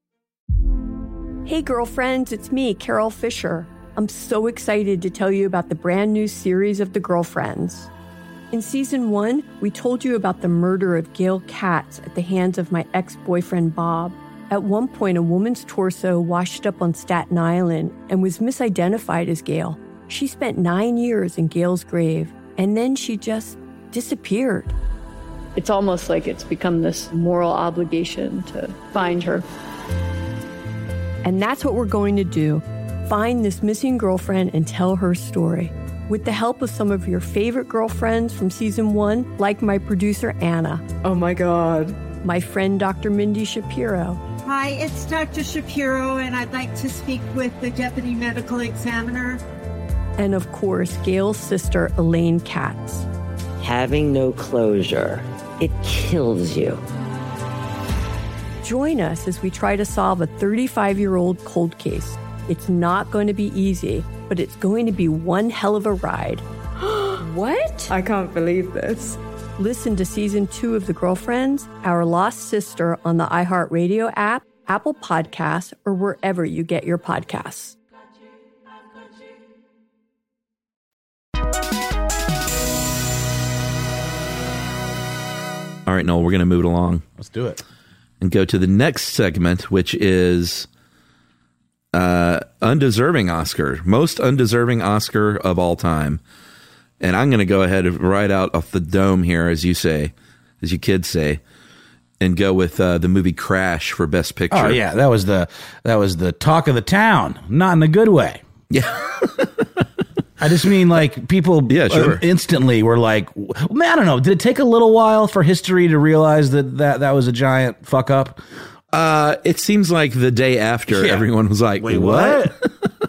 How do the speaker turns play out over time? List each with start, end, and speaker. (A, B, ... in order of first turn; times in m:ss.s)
0:01.4-0:07.9 A
0:08.5-0:24.7 A
0:25.6-0:29.4 B
0:31.2-0:40.8 A
0:41.0-0:42.0 C
0:42.2-0:44.2 A
0:44.4-0:49.4 D
0:50.2-0:53.0 A
0:53.6-0:56.8 E
0:58.6-1:06.4 A
1:06.9-1:09.2 C
1:07.3-1:07.9 A
1:09.6-1:17.8 A
1:25.8-1:27.0 F
1:27.2-1:27.6 G
1:28.2-1:30.7 F
1:31.9-1:36.2 F
1:37.0-1:41.4 F
1:42.2-1:44.8 F
1:44.5-1:48.4 G
1:48.7-1:49.7 F
1:50.4-1:58.4 G
1:51.7-1:52.2 F
1:58.9-2:02.7 F
2:00.9-2:01.3 G
2:01.8-2:02.6 G